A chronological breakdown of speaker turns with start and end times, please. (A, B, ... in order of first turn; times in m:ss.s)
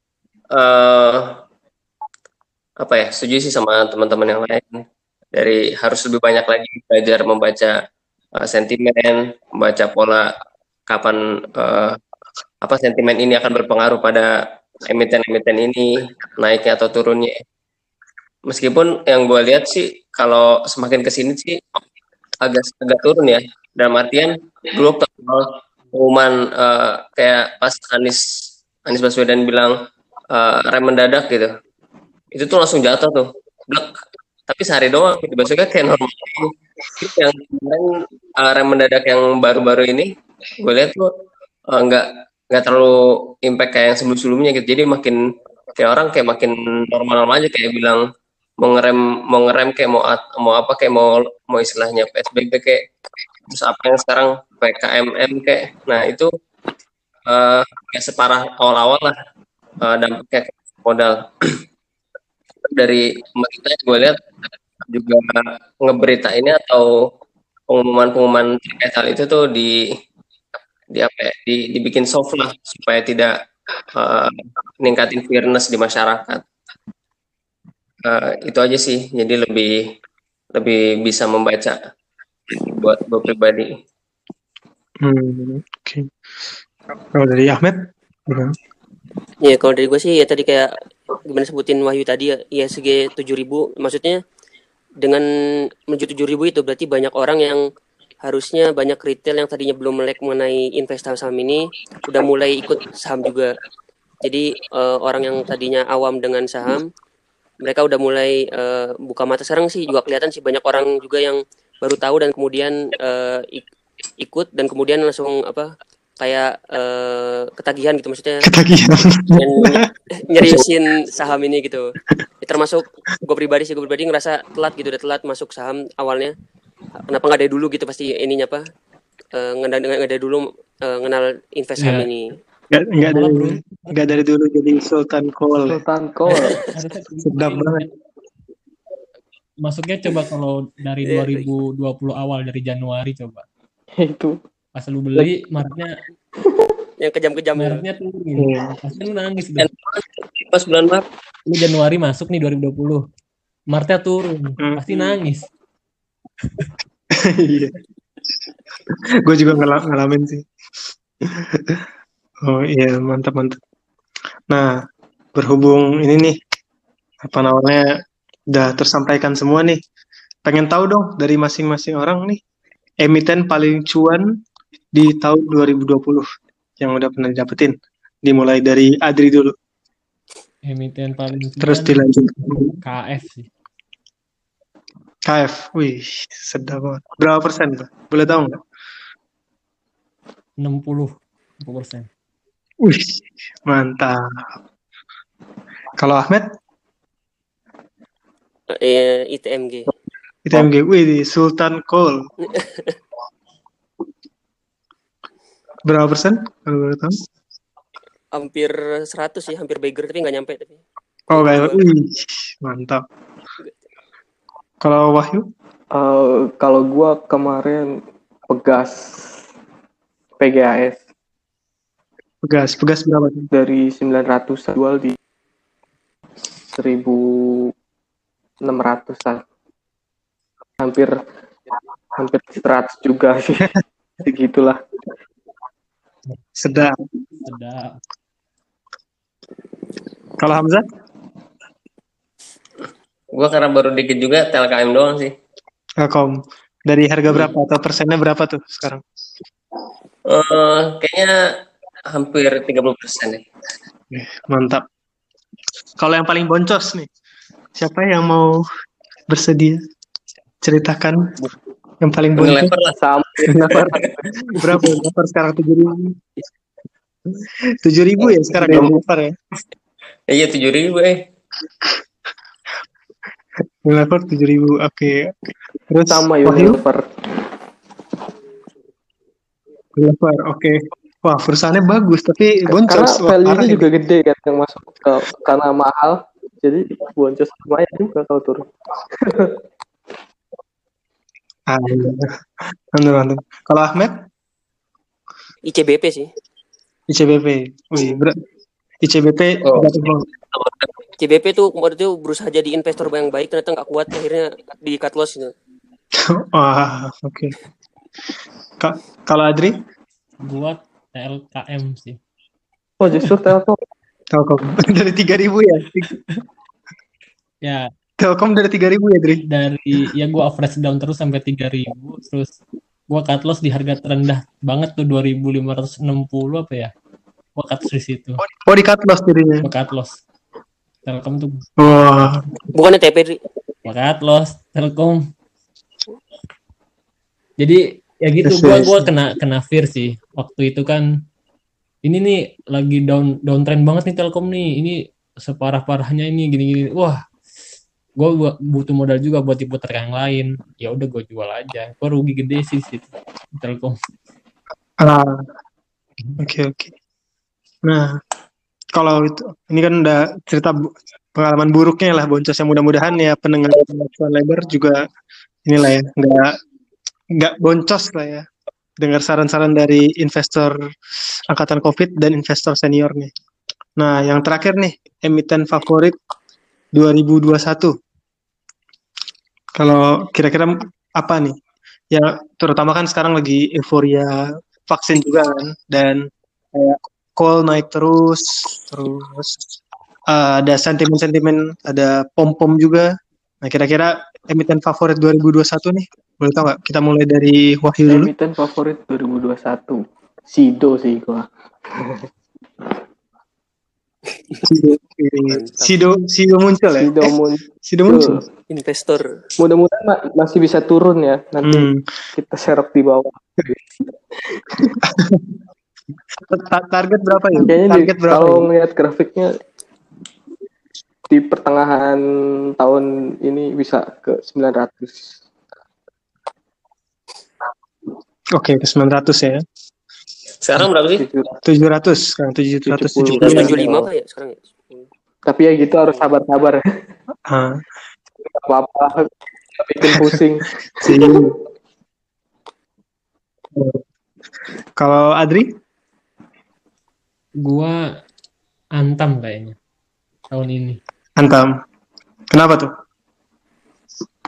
0:00.5-0:01.4 A
0:02.8-0:07.8 A
0:08.4-0:10.3 A
0:10.9-0:12.0 A
0:12.6-0:14.3 A
0:14.9-0:17.4 A
0:18.5-0:21.8 A
0:22.4-0:29.7 A
0:30.3-0:31.5 A
0:32.3-0:41.1 A
0:41.7-0:45.2 A
0:45.7-0:48.0 A
0:48.6-0:52.8 A
0:53.5-0:56.3 A
0:57.3-0:59.1 A
0:59.8-1:01.6 A
1:02.6-1:04.2 A
1:04.9-1:06.9 A
1:07.7-1:09.8 A
1:10.9-1:13.3 A
1:13.9-1:16.4 A
1:18.0-1:19.8 A
1:20.5-1:21.8 A
1:22.5-1:23.7 A
1:25.0-1:26.1 B
1:27.1-1:28.6 B
1:29.4-1:30.7 C
1:31.3-1:34.2 C
1:35.9-1:37.6 C
1:38.2-1:43.5 C
1:44.2-1:46.9 C
1:47.6-1:53.6 C
1:54.2-1:58.5 C
1:58.4-2:00.6 B
1:59.4-2:06.3 C
2:07.1-2:08.6 C
2:09.3-2:12.2 C
2:11.8-2:12.1 D
2:12.7-2:15.8 B
2:13.0-2:14.2 D
2:15.7-2:16.6 E
2:16.3-2:17.9 D
2:17.2-2:17.8 B
2:19.6-2:23.4 D
2:21.0-2:21.5 C
2:24.0-2:24.4 E
2:24.7-2:26.0 D
2:26.4-2:26.7 E
2:27.0-2:27.8 C
2:27.6-2:29.7 D
2:28.4-2:28.8 B
2:29.6-2:31.0 A
2:31.5-2:33.0 D
2:33.7-2:35.4 D
2:37.2-2:37.8 B
2:38.9-2:40.4 B
2:41.2-2:41.8 B
2:42.4-2:43.6 B
2:44.5-2:44.7 B
2:45.3-2:46.4 B
2:47.2-2:47.9 B
2:48.5-2:49.8 B
2:50.4-2:52.4 B
2:53.0-2:54.3 B
2:54.9-2:56.3 B
2:56.8-2:59.5 B
3:00.6-3:02.0 D
3:01.6-3:02.8 B
3:02.8-3:03.5 D
3:05.3-3:08.6 B
3:10.6-3:12.1 D
3:12.8-3:14.5 B
3:16.0-3:16.5 B
3:18.7-3:19.9 C
3:20.4-3:22.2 B
3:22.4-3:22.9 C
3:25.9-3:27.2 B
3:28.3-3:30.8 C
3:31.3-3:33.0 B
3:31.3-3:31.9 C
3:34.8-3:35.5 B
3:35.9-3:37.9 E
3:38.5-3:39.3 E
3:40.4-3:41.0 E
3:42.4-3:43.5 B
3:43.5-3:45.2 E
3:46.7-3:47.7 E
3:48.6-3:49.4 E
3:50.8-3:51.1 E
3:52.1-3:53.7 E
3:54.2-3:54.8 E
3:56.6-3:57.0 B
3:57.4-3:58.0 D
4:00.4-4:00.8 B
4:03.3-4:05.3 A
4:06.0-4:09.0 B
4:10.3-4:11.3 A
4:12.1-4:13.4 A
4:14.1-4:14.8 B
4:16.0-4:17.1 B
4:17.8-4:18.6 B
4:19.3-4:19.8 B
4:20.6-4:21.4 B
4:22.0-4:22.7 B
4:22.4-4:23.0 A
4:23.0-4:24.2 E
4:23.5-4:26.2 B
4:23.7-4:24.0 A
4:27.3-4:29.3 B
4:28.4-4:28.9 A
4:30.3-4:31.2 A
4:33.8-4:35.3 B
4:35.9-4:36.8 B
4:36.1-4:37.0 E
4:40.0-4:43.9 B
4:42.7-4:49.6 E
4:51.7-4:54.2 B
4:55.6-4:56.3 C
4:57.1-4:58.4 B
4:59.0-5:00.2 B
4:59.6-5:00.9 A
5:01.2-5:05.5 C
5:06.2-5:07.5 B
5:08.8-5:09.8 B
5:10.4-5:12.2 D
5:13.0-5:13.8 E
5:14.3-5:16.1 B
5:18.2-5:19.4 B
5:19.5-5:22.5 D
5:23.1-5:26.9 D
5:27.6-5:28.4 D
5:28.6-5:29.7 B
5:29.6-5:30.2 D
5:31.0-5:32.3 D
5:31.8-5:32.4 B
5:32.7-5:33.4 C
5:33.8-5:35.2 D
5:37.6-5:41.0 D
5:38.4-5:39.1 B
5:42.0-5:47.2 D
5:48.2-5:54.0 D
5:55.0-5:55.5 B
5:56.4-5:56.9 B
5:57.8-5:58.2 B
5:58.9-6:05.0 B
6:05.6-6:06.5 B
6:07.4-6:08.4 B
6:09.0-6:10.7 B
6:11.5-6:13.3 B
6:14.0-6:16.1 B
6:16.9-6:17.9 B
6:19.8-6:21.6 B
6:22.1-6:29.6 B
6:30.3-6:33.1 B
6:33.6-6:38.3 B
6:38.1-6:42.3 E
6:44.6-6:47.3 B
6:45.6-6:45.9 C
6:47.0-6:48.4 E
6:47.9-6:48.4 B
6:48.7-6:49.2 C
6:49.6-6:53.9 E
6:51.6-6:52.0 B
6:54.5-6:55.0 E
6:55.0-6:55.6 B
6:56.4-6:58.7 B
6:57.6-6:59.5 E
7:01.3-7:02.2 E
7:02.8-7:05.4 E
7:08.5-7:09.6 B
7:10.6-7:11.2 A
7:11.1-7:11.6 E
7:11.6-7:13.8 B
7:12.8-7:14.0 E
7:13.3-7:13.7 A
7:13.4-7:15.1 C
7:15.4-7:16.9 E
7:17.5-7:17.8 B
7:18.4-7:21.4 E
7:21.0-7:21.5 B
7:23.7-7:24.0 B
7:25.0-7:25.7 B
7:27.6-7:28.0 D
7:29.0-7:29.8 D
7:30.5-7:31.0 D
7:31.4-7:31.8 B
7:32.5-7:32.9 B